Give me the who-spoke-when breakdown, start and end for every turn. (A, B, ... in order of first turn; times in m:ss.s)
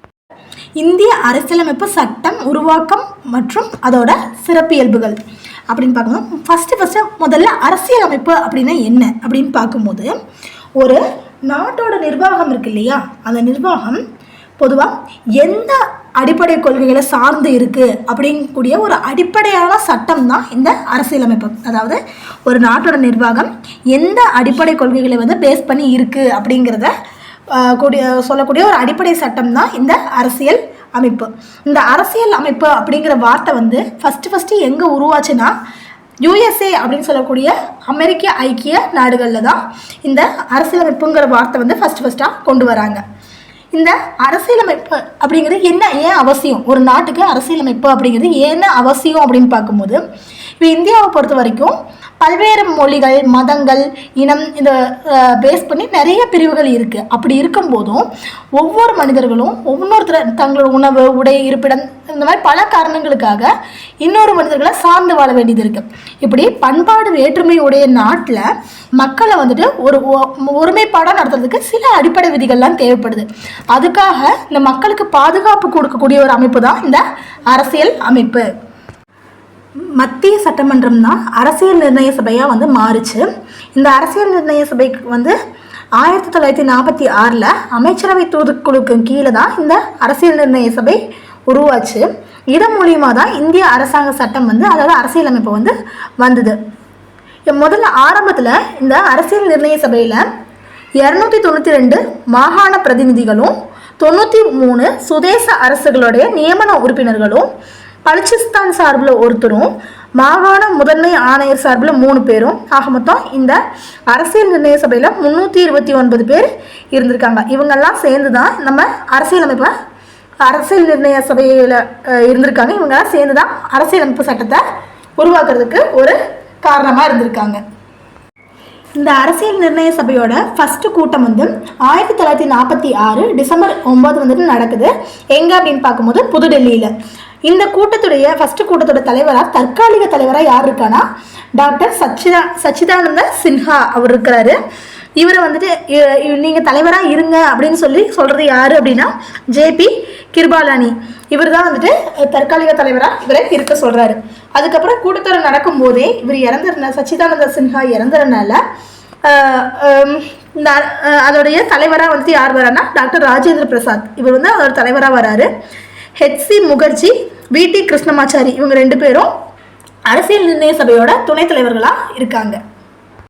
0:00.8-0:05.2 A
0:05.7-0:10.2 A
0:10.8-0:14.0 A
0:14.6-0:26.9 A
0:27.5-0:35.5 A
0:36.2-0:43.0 A
0:43.7-0:50.0 A
0:50.6-1:18.5 A
1:20.0-1:25.4 A
1:26.0-1:36.6 A
1:37.5-1:40.3 A
1:41.0-1:47.5 A
1:48.0-1:59.7 A
2:00.4-2:04.6 A
2:05.2-2:07.6 A
2:09.0-2:16.9 A
2:17.5-2:21.0 A
2:21.6-2:24.6 A
2:25.2-2:38.6 A
2:39.2-2:45.5 A
2:46.2-2:49.3 A
2:50.1-2:52.6 A